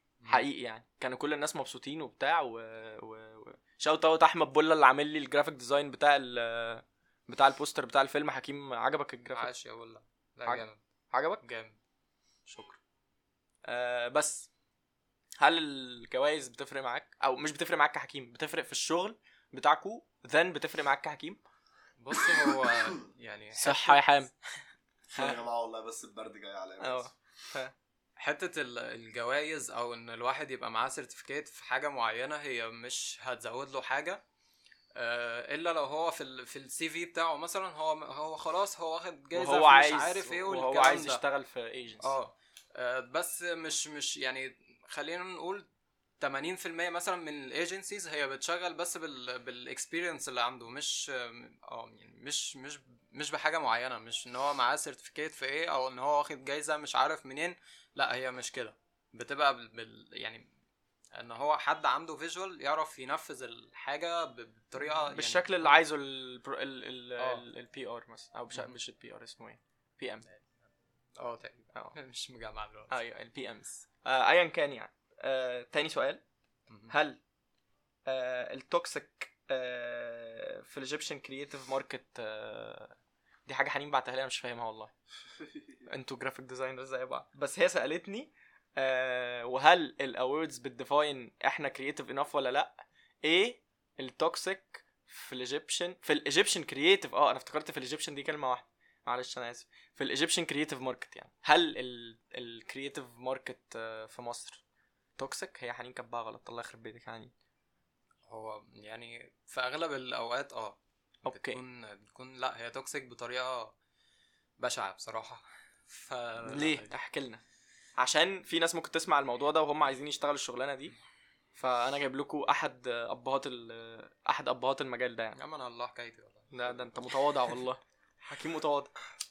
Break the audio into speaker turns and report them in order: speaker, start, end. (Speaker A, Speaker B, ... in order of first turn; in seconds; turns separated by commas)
Speaker A: 0.2-0.5, Speaker B: 0.3-9.5, Speaker A: 9.3-10.8, Speaker B: 10.4-11.4, Speaker A: 11.4-11.8, Speaker B: 12.5-12.8, Speaker B: 13.7-14.5, Speaker B: 15.4-21.4, Speaker A: 22.0-24.6, Speaker B: 23.6-24.3, Speaker C: 25.1-27.1, Speaker B: 26.8-27.7, Speaker A: 28.2-34.2, Speaker A: 35.0-41.2, Speaker B: 39.3-42.1, Speaker A: 42.0-45.7, Speaker A: 46.2-60.5, Speaker A: 61.1-65.8, Speaker B: 65.1-70.2, Speaker A: 67.2-67.4, Speaker A: 71.2-72.9, Speaker B: 72.9-76.2, Speaker A: 76.7-76.9, Speaker B: 76.9-77.2, Speaker B: 78.1-84.9, Speaker B: 85.9-104.6, Speaker B: 105.2-107.3, Speaker A: 108.3-113.7, Speaker B: 111.2-111.6, Speaker A: 114.6-116.9, Speaker B: 116.4-117.4, Speaker B: 118.0-120.9, Speaker B: 121.5-125.4, Speaker A: 125.3-126.8, Speaker B: 126.5-128.9